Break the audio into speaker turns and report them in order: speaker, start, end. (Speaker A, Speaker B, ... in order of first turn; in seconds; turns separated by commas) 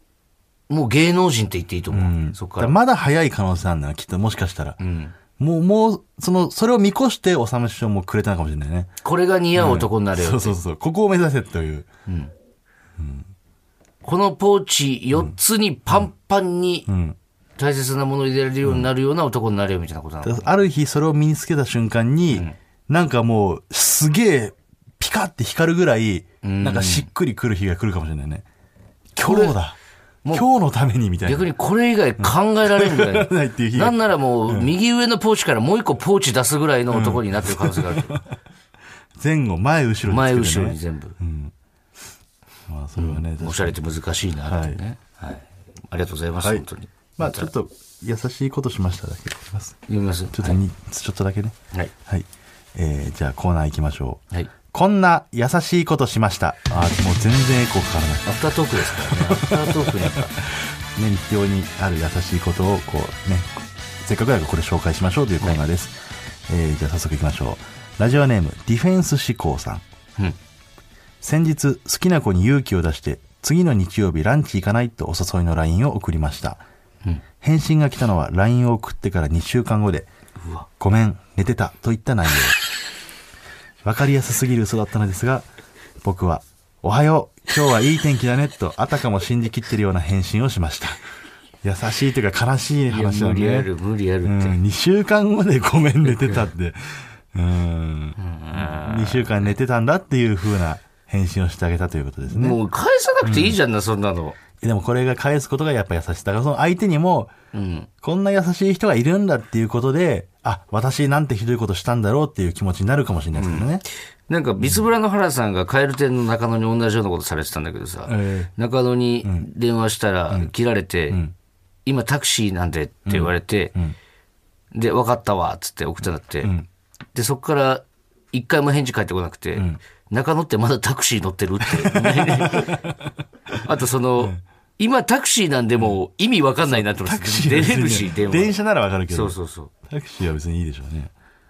Speaker A: 0.7-2.8, Speaker B: 1.9-4.8, Speaker A: 4.8-5.2, Speaker B: 5.4-8.9, Speaker A: 9.0-10.6, Speaker B: 9.6-11.9, Speaker A: 12.1-12.3, Speaker B: 13.0-13.3, Speaker A: 14.0-16.9, Speaker B: 16.9-17.2, Speaker A: 17.6-20.5, Speaker B: 20.2-28.4, Speaker A: 22.3-22.6, Speaker A: 26.4-27.1, Speaker B: 29.2-29.8, Speaker A: 29.2-29.6, Speaker B: 30.3-31.5, Speaker A: 31.2-38.2, Speaker B: 32.2-34.7, Speaker B: 36.9-38.2, Speaker B: 39.2-41.5, Speaker A: 40.1-41.2, Speaker B: 42.7-43.8, Speaker A: 43.0-47.5, Speaker B: 44.5-44.8, Speaker B: 46.4-46.6, Speaker B: 47.2-49.8, Speaker A: 49.9-50.6, Speaker B: 50.3-51.5, Speaker B: 52.1-66.0, Speaker A: 58.2-60.4, Speaker B: 66.5-69.8, Speaker B: 71.2-76.6, Speaker B: 77.4-80.1, Speaker A: 80.4-80.7, Speaker B: 80.8-82.6, Speaker B: 83.8-85.5, Speaker B: 86.0-91.0, Speaker B: 91.6-93.7, Speaker A: 92.9-94.6, Speaker B: 94.2-102.6, Speaker A: 96.0-96.4, Speaker A: 98.2-99.5, Speaker A: 102.3-104.4, Speaker B: 103.2-103.6, Speaker B: 104.6-107.3, Speaker A: 107.5-107.9, Speaker B: 108.0-113.8, Speaker A: 113.4-121.2, Speaker B: 118.1-118.5, Speaker A: 121.9-123.8, Speaker B: 123.1-124.0, Speaker A: 124.7-126.5, Speaker A: 127.1-132.8, Speaker B: 131.8-133.1, Speaker A: 133.6-138.6, Speaker B: 137.0-139.4, Speaker A: 139.1-139.7, Speaker B: 139.9-141.1